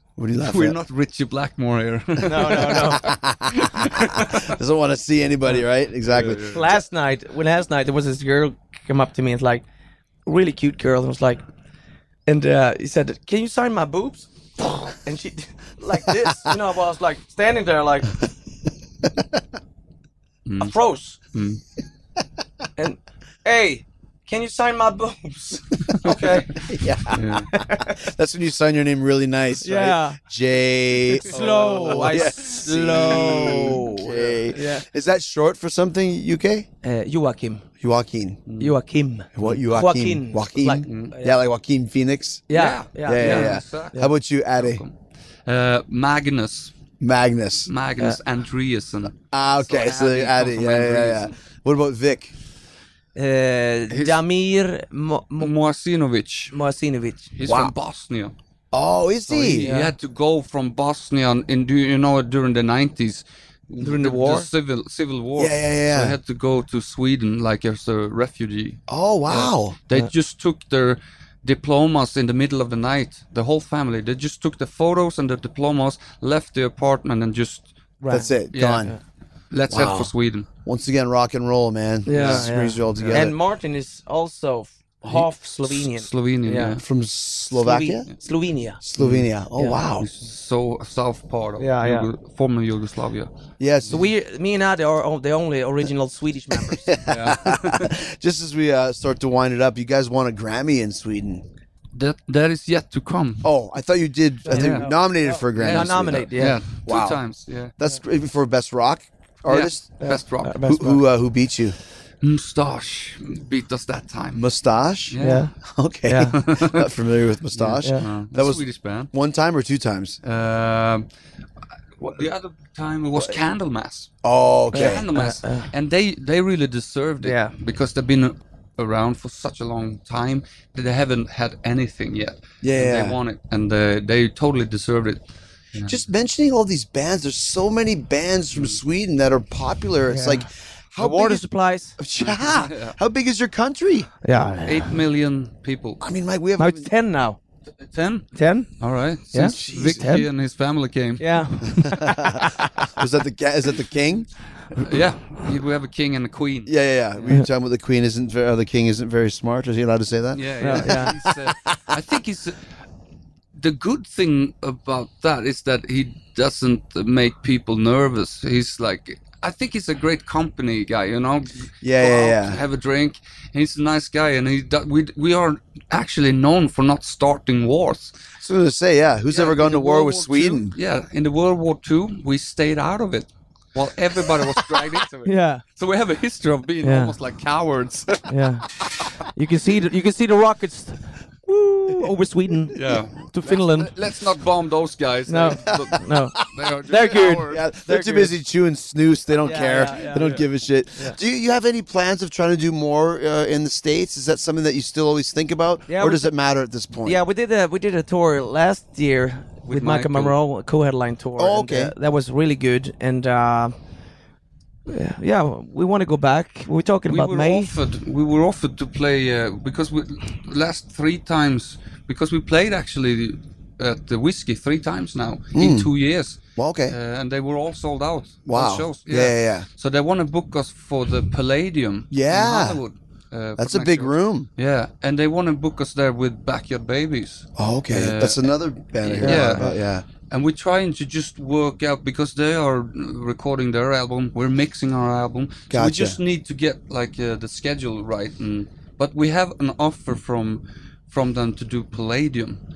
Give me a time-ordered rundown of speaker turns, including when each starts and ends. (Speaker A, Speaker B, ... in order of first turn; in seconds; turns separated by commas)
Speaker A: 0.2-0.8, Speaker B: 0.4-4.5, Speaker C: 2.2-3.1, Speaker A: 2.4-6.6, Speaker B: 6.0-6.7, Speaker C: 6.5-9.6, Speaker C: 10.2-11.4, Speaker C: 12.2-18.2, Speaker B: 20.4-20.7, Speaker C: 20.6-21.2, Speaker B: 21.3-21.6, Speaker C: 22.8-26.6, Speaker B: 25.9-26.6, Speaker A: 26.6-36.7, Speaker B: 27.1-27.5, Speaker C: 27.5-28.0, Speaker C: 29.6-30.2, Speaker C: 31.1-34.9, Speaker B: 31.3-34.3, Speaker C: 36.8-37.6, Speaker A: 37.8-38.4, Speaker B: 38.5-38.7, Speaker C: 38.6-41.4, Speaker A: 39.3-42.5, Speaker B: 40.8-41.1, Speaker C: 42.5-44.1, Speaker B: 42.5-44.9, Speaker A: 43.0-44.8, Speaker B: 45.5-46.7, Speaker A: 47.0-47.7, Speaker B: 47.7-51.3, Speaker A: 49.3-52.3, Speaker C: 53.1-55.5, Speaker B: 53.9-54.2, Speaker B: 55.4-56.5, Speaker C: 56.5-57.3, Speaker B: 57.3-58.3, Speaker A: 57.5-57.7, Speaker A: 58.7-59.7, Speaker B: 59.3-77.7, Speaker C: 59.6-59.9, Speaker C: 63.8-64.5, Speaker A: 65.4-66.2, Speaker A: 68.9-69.8, Speaker C: 78.0-78.3, Speaker A: 78.1-78.9, Speaker B: 78.5-78.9, Speaker B: 79.5-80.5, Speaker A: 79.7-80.1, Speaker A: 80.6-83.3, Speaker C: 82.0-86.8, Speaker B: 82.1-83.2, Speaker B: 85.1-86.8, Speaker A: 86.8-88.1, Speaker C: 87.5-88.8, Speaker A: 88.8-90.1, Speaker B: 89.0-89.3, Speaker C: 89.6-89.9, Speaker B: 90.0-93.3, Speaker C: 91.6-92.1, Speaker A: 93.6-94.0, Speaker C: 93.9-96.9, Speaker A: 96.7-101.4, Speaker B: 97.1-97.9, Speaker B: 101.9-103.5, Speaker A: 103.4-107.2, Speaker C: 104.5-106.6, Speaker B: 104.5-104.9, Speaker B: 105.5-107.7, Speaker A: 107.8-109.9, Speaker B: 109.5-110.6, Speaker C: 110.0-111.0, Speaker A: 110.7-111.8, Speaker B: 112.2-114.5, Speaker A: 114.3-120.2, Speaker B: 115.1-115.5, Speaker C: 115.2-115.5, Speaker C: 116.1-116.3, Speaker B: 116.3-116.9, Speaker B: 117.5-119.1, Speaker B: 120.2-121.1, Speaker B: 122.0-124.1, Speaker A: 124.2-125.1, Speaker C: 124.7-125.7, Speaker B: 124.7-135.2, Speaker C: 127.2-127.5, Speaker A: 132.6-133.2, Speaker A: 135.8-141.5, Speaker C: 140.1-140.4, Speaker C: 141.0-141.9, Speaker A: 142.0-144.1, Speaker B: 142.2-142.9, Speaker C: 144.2-145.0, Speaker B: 144.6-146.0, Speaker A: 146.0-146.9, Speaker C: 146.6-147.4, Speaker B: 147.8-151.9, Speaker C: 148.3-148.7, Speaker C: 149.3-150.3, Speaker A: 149.4-150.1, Speaker C: 151.2-152.9, Speaker A: 151.8-154.9, Speaker B: 154.7-157.3, Speaker A: 156.7-161.8, Speaker B: 160.3-162.6, Speaker C: 160.6-161.1, Speaker B: 163.5-178.2, Speaker A: 171.8-172.6, Speaker A: 178.4-180.8, Speaker B: 179.3-188.9, Speaker C: 185.2-185.6, Speaker C: 186.8-187.2, Speaker C: 188.3-188.7, Speaker C: 189.3-193.9, Speaker B: 192.7-197.6, Speaker C: 195.3-198.3, Speaker A: 197.1-207.2, Speaker C: 199.4-200.4, Speaker B: 200.0-200.4, Speaker C: 205.9-206.3, Speaker C: 207.0-213.7, Speaker B: 209.7-210.3, Speaker A: 211.4-211.9, Speaker C: 214.9-217.7, Speaker B: 217.1-239.7, Speaker A: 225.5-225.9, Speaker A: 226.6-226.9, Speaker A: 228.5-229.7, Speaker A: 232.1-232.8, Speaker A: 233.6-234.5, Speaker A: 237.6-240.0, Speaker C: 239.2-239.8, Speaker B: 240.3-252.6, Speaker A: 245.7-246.2